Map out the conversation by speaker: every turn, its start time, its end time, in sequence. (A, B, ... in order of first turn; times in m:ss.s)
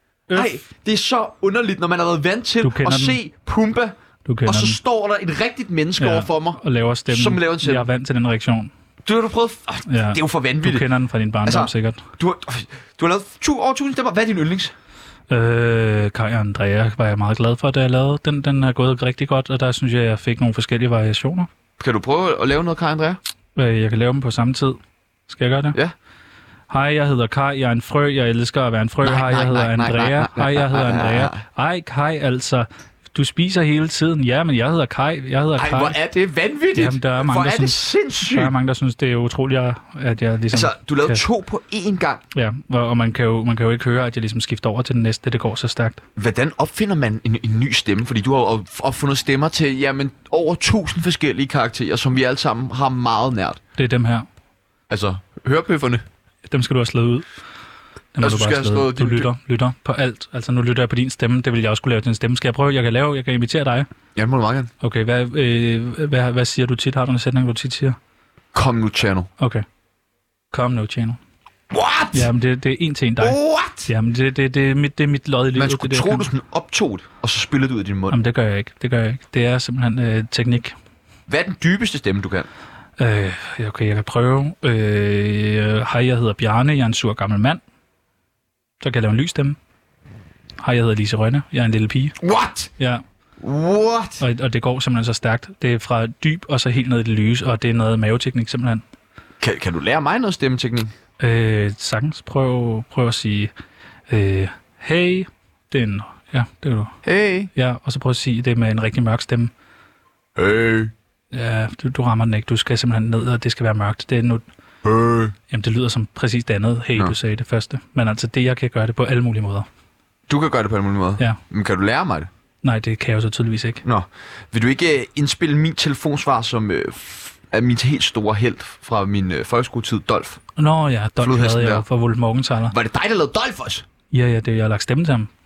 0:00.3-0:00.6 A
0:00.3-0:07.9 B
0:02.6-0:03.2 A
0:04.2-0:04.8 A
0:06.0-0:08.7 A
0:09.0-0:10.8 B
0:09.9-0:12.0 A
0:11.4-0:14.7 B
0:15.3-0:21.5 A
0:21.8-0:23.2 B
0:23.6-0:25.8 A
0:26.7-0:35.9 A
0:29.0-0:31.4 B
0:35.6-0:38.5 B
0:36.8-0:41.2 A
0:40.5-0:42.2 B
0:42.3-0:46.0 A
0:46.2-0:53.6 B
0:53.8-0:54.3 A
0:54.9-0:56.0 B
0:56.5-0:57.2 A
0:58.1-1:03.9 A
0:58.2-0:59.3 B
1:04.2-1:04.7 B
1:04.8-1:08.0 A
1:08.5-1:09.3 B
1:09.4-1:09.6 A
1:10.5-1:11.2 A
1:11.7-1:12.3 B
1:12.1-1:16.3 A
1:13.2-1:13.9 B
1:15.5-1:18.2 B
1:18.1-1:20.7 A
1:21.3-1:22.5 B
1:23.0-1:27.6 A
1:28.8-1:29.6 A
1:30.6-1:32.2 A
1:32.2-1:32.7 B
1:32.8-1:33.0 A
1:33.4-1:34.2 B
1:34.2-1:38.8 A
1:39.4-1:40.9 B
1:41.2-1:43.5 A
1:44.1-1:47.0 A
1:47.0-1:47.5 B
1:47.5-1:49.5 A
1:50.4-1:50.9 B
1:51.3-1:54.4 A
1:54.8-1:55.3 B
1:55.5-1:59.7 A
2:00.3-2:02.3 B
2:02.6-2:03.8 A
2:03.8-2:10.4 B
2:10.6-2:12.7 A
2:11.2-2:11.8 B
2:12.7-2:13.9 B
2:14.1-2:15.3 A